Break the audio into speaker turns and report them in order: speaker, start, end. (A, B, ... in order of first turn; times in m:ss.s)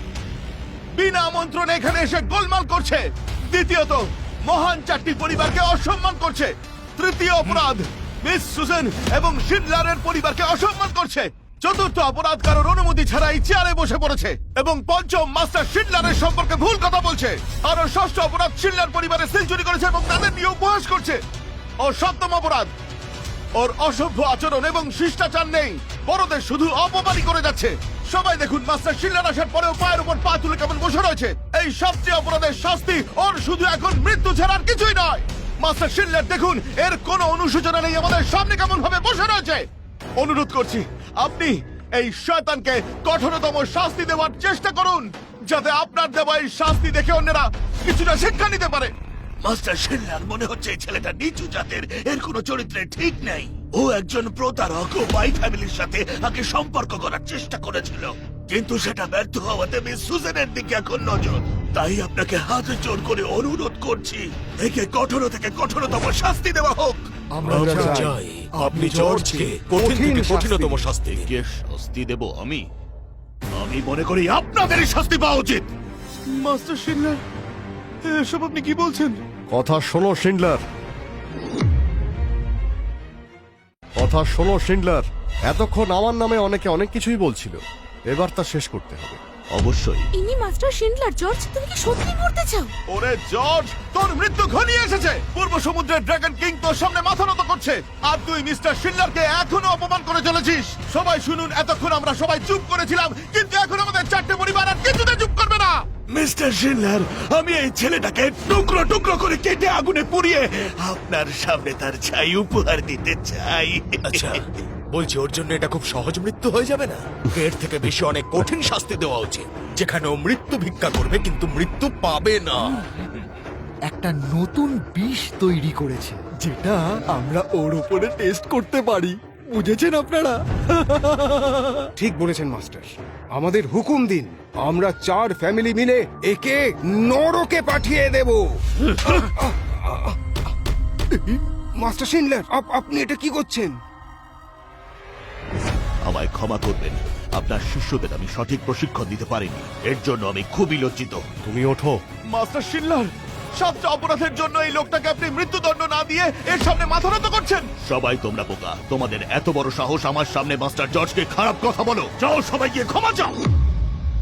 0:01.0-0:21.2 A
0:21.8-0:22.7 A
0:23.6-0:39.7 A
0:40.2-0:48.9 A
0:49.4-1:07.1 B
1:07.4-1:07.9 C
1:07.4-1:08.2 D
1:07.4-1:11.3 E
1:08.6-1:09.5 C
1:08.9-1:10.9 D
1:11.0-1:12.6 B
1:13.6-1:15.7 B
1:16.3-1:17.2 A
1:18.0-1:19.2 A
1:19.5-1:20.6 F
1:24.0-1:29.2 F
1:29.5-1:30.1 B
1:30.1-1:32.7 G
1:32.9-1:45.8 A
1:46.1-1:54.4 B
1:54.0-2:02.9 E
2:03.9-2:07.6 C
2:12.0-2:20.2 D
2:21.2-2:23.8 D
2:26.0-2:31.2 B
2:31.4-2:32.0 F
2:32.3-2:37.6 A
2:37.8-2:43.4 B